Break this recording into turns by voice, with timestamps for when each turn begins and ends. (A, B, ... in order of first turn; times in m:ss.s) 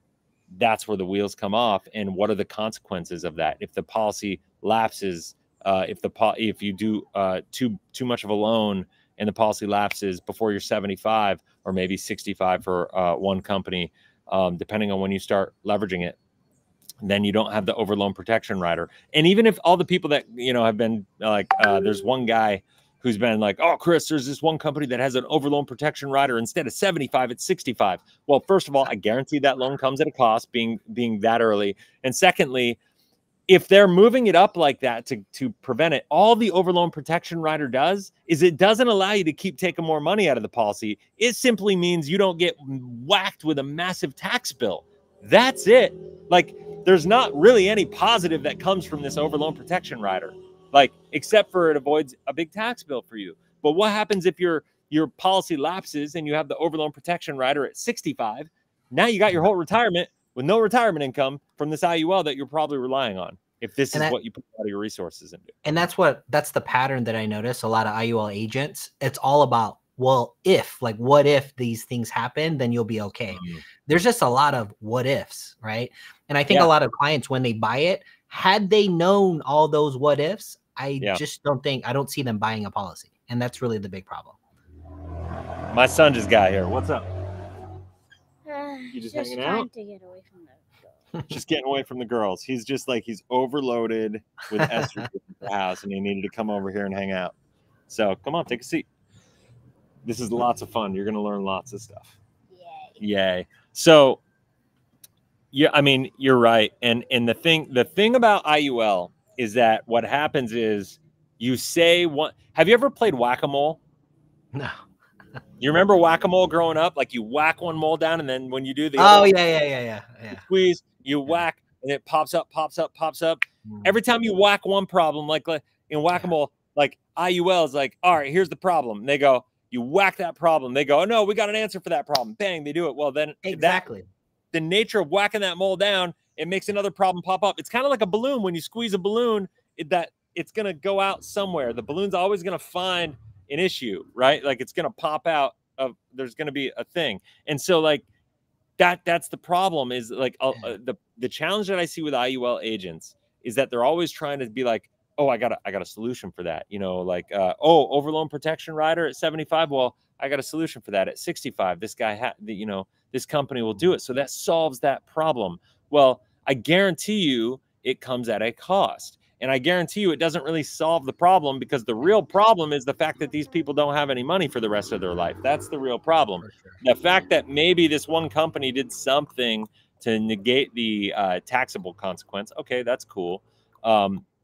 0:00.5-0:16.2 A
0:17.0-0:32.8 A
0:33.5-1:05.5 A
1:05.6-1:24.4 B
1:13.3-1:13.6 A
1:25.7-1:27.1 A
1:28.4-1:30.9 C
1:28.9-1:29.7 A
1:31.3-1:37.4 A
1:34.6-1:35.0 B
1:37.9-1:38.9 A
1:40.0-1:42.2 A
1:42.5-1:43.0 C
1:43.0-1:44.2 A
1:45.5-1:53.8 A
1:54.5-1:54.8 B
1:55.6-1:59.3 A
1:59.0-2:00.4 B
2:00.3-2:13.8 A
2:13.4-2:14.1 B
2:14.5-2:28.1 A
2:28.8-3:04.2 A
2:56.4-2:56.8 B